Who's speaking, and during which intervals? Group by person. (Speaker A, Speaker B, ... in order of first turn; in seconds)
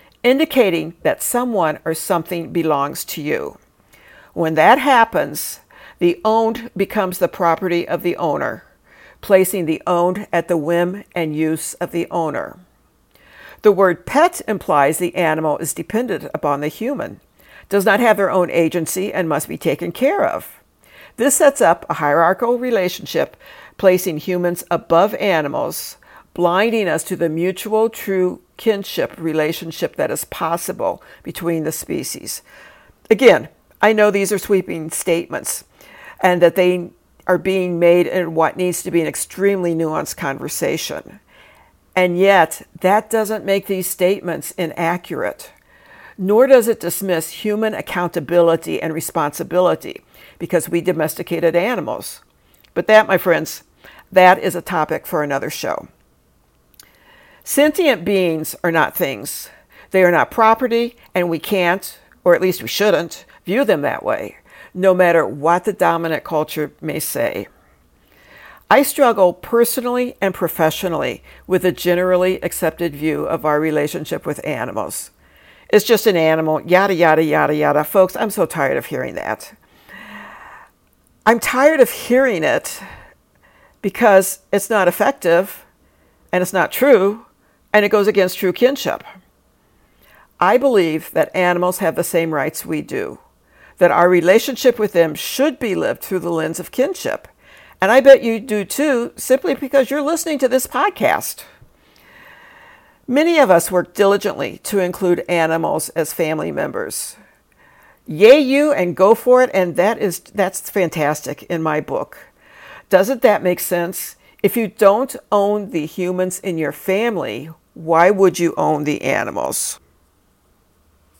Speaker A: 0.2-3.6, 4.3-8.7, 9.2-12.6, 13.6-20.6, 21.2-32.4, 33.1-35.6, 36.2-41.2, 42.0-45.5, 46.2-52.2, 52.7-55.9, 57.4-67.5, 68.7-75.1, 75.7-79.5, 81.2-82.8, 83.8-85.6, 86.3-89.0, 90.4-93.2, 93.8-97.3, 97.8-101.5, 103.1-107.2, 108.1-112.3, 112.9-119.8